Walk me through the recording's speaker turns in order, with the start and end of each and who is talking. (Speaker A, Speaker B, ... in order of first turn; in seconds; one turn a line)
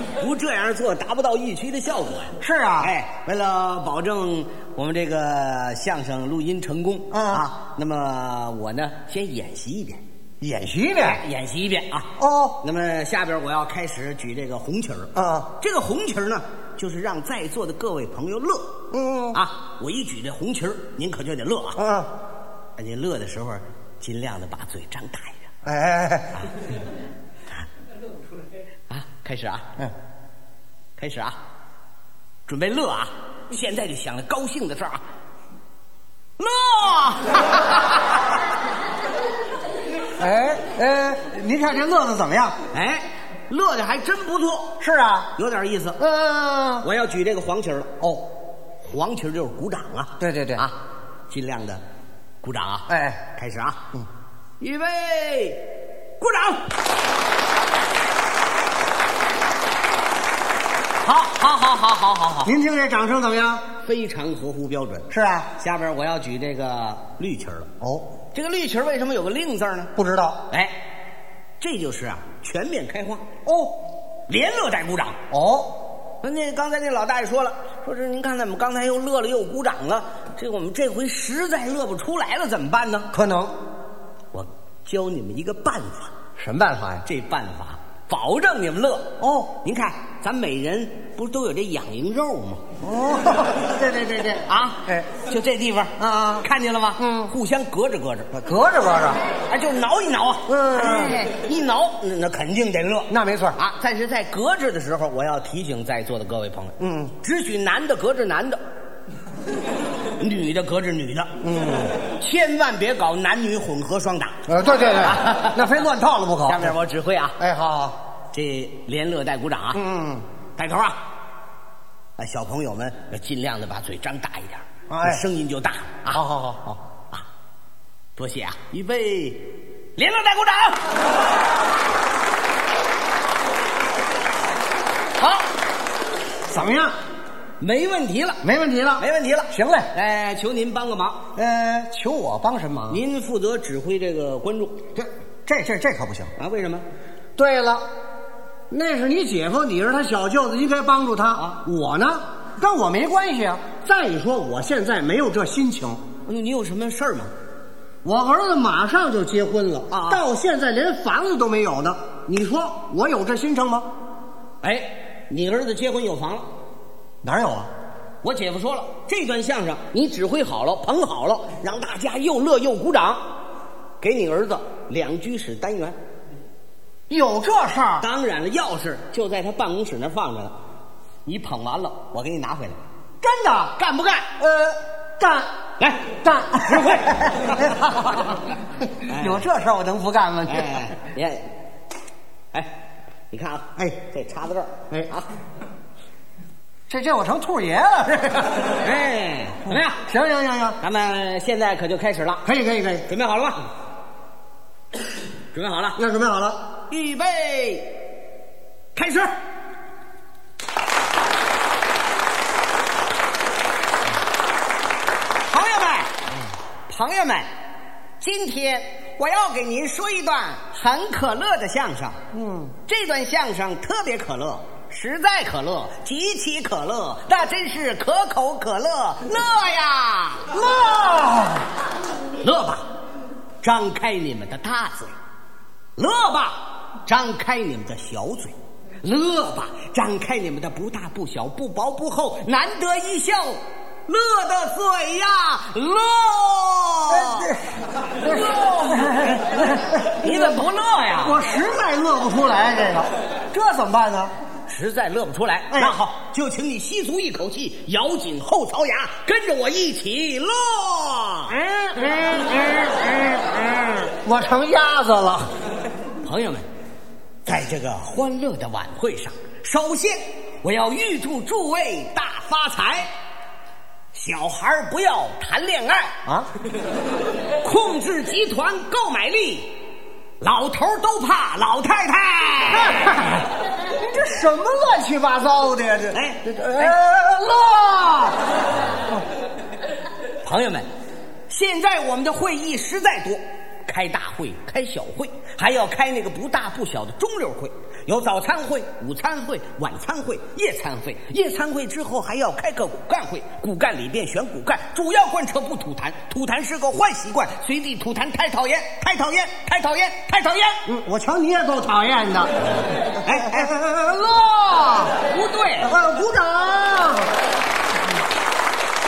Speaker A: 0.2-10.0
Speaker B: 2.4-2.9
Speaker B: 7.1-7.4
Speaker B: 10.4-11.2
Speaker A: 11.0-12.1
Speaker B: 12.2-12.6
Speaker A: 12.6-18.8
Speaker B: 15.2-15.5
Speaker B: 18.9-19.4
Speaker A: 19.3-21.8
Speaker B: 21.8-22.1
Speaker A: 22.8-25.5
Speaker B: 25.6-26.4
Speaker A: 28.9-29.7
Speaker A: 31.0-31.4
Speaker A: 32.5-35.0
Speaker A: 36.4-38.2
Speaker B: 40.2-42.6
Speaker A: 42.7-44.8
Speaker B: 44.8-45.3
Speaker A: 45.4-46.0
Speaker B: 46.0-46.9
Speaker A: 46.8-47.9
Speaker A: 48.8-50.8
Speaker B: 50.2-50.7
Speaker A: 51.3-51.8
Speaker A: 52.4-53.8
Speaker B: 52.9-53.2
Speaker A: 54.6-55.7
Speaker A: 56.2-56.6
Speaker A: 61.0-62.6
Speaker B: 62.5-63.6
Speaker A: 63.8-67.7
Speaker B: 65.1-65.5
Speaker B: 67.8-68.1
Speaker A: 68.3-69.9
Speaker B: 70.0-70.4
Speaker A: 71.6-73.2
Speaker B: 73.5-73.8
Speaker A: 74.3-75.2
Speaker B: 75.3-75.8
Speaker A: 76.2-83.1
Speaker B: 83.1-83.5
Speaker A: 84.3-86.1
Speaker B: 86.4-87.0
Speaker A: 87.0-92.6
Speaker B: 89.2-89.5
Speaker B: 92.8-95.1
Speaker A: 94.5-98.3
Speaker B: 96.0-97.3
Speaker B: 98.3-99.2
Speaker A: 99.5-108.6
Speaker B: 100.5-101.2
Speaker B: 103.1-103.6
Speaker B: 106.8-107.1
Speaker A: 110.2-111.3
Speaker B: 111.4-112.0
Speaker A: 112.2-115.8
Speaker B: 114.5-116.8
Speaker A: 116.5-117.4
Speaker B: 117.4-118.0
Speaker A: 118.3-119.8
Speaker B: 119.7-120.2
Speaker A: 120.6-121.0
Speaker A: 122.2-127.2
Speaker B: 124.9-125.2
Speaker B: 126.1-126.6
Speaker A: 128.2-131.0
Speaker A: 135.2-135.4
Speaker B: 136.5-137.0
Speaker A: 137.6-138.4
Speaker B: 138.4-139.9
Speaker A: 139.0-141.2
Speaker B: 141.4-143.0
Speaker A: 142.9-144.8
Speaker B: 145.0-146.3
Speaker A: 146.4-146.9
Speaker B: 147.4-147.8
Speaker B: 148.7-156.0
Speaker A: 156.3-157.3
Speaker B: 158.0-163.9
Speaker A: 159.9-160.2
Speaker A: 164.6-166.5
Speaker B: 167.2-167.7
Speaker A: 168.2-173.2
Speaker A: 174.0-176.0
Speaker B: 177.1-178.1
Speaker A: 178.0-180.6
Speaker A: 181.3-182.8
Speaker B: 183.2-183.8
Speaker A: 183.8-184.3
Speaker B: 184.4-185.5
Speaker A: 185.8-187.7
Speaker B: 186.2-188.3
Speaker B: 188.9-190.9
Speaker A: 189.1-189.4
Speaker A: 190.5-191.5
Speaker A: 193.3-195.3
Speaker B: 196.9-198.7
Speaker A: 198.7-200.0
Speaker B: 200.1-200.8
Speaker A: 200.8-202.5
Speaker B: 202.4-203.1
Speaker A: 203.1-203.6
Speaker A: 205.5-206.0
Speaker B: 206.0-206.6
Speaker A: 206.9-207.9
Speaker A: 208.9-209.3
Speaker A: 215.5-216.2
Speaker A: 216.9-217.5
Speaker A: 218.2-222.2
Speaker B: 222.3-222.7
Speaker A: 222.9-230.5
Speaker B: 230.5-231.7
Speaker A: 232.4-232.9
Speaker A: 233.6-235.1
Speaker A: 236.0-247.5
Speaker B: 247.1-247.7
Speaker B: 248.2-250.6
Speaker A: 248.2-251.4
Speaker B: 251.2-254.3
Speaker A: 254.7-261.6
Speaker B: 255.7-256.0
Speaker B: 261.6-263.2
Speaker B: 264.1-265.5
Speaker A: 266.2-266.7
Speaker A: 267.4-273.1
Speaker A: 274.1-276.1
Speaker A: 277.6-279.8
Speaker A: 280.4-283.4
Speaker B: 282.9-287.2
Speaker A: 286.1-288.3
Speaker A: 290.4-290.9
Speaker A: 291.5-310.8
Speaker B: 310.9-312.5
Speaker B: 313.2-315.1
Speaker A: 313.2-313.7
Speaker A: 315.2-315.9
Speaker B: 315.8-317.3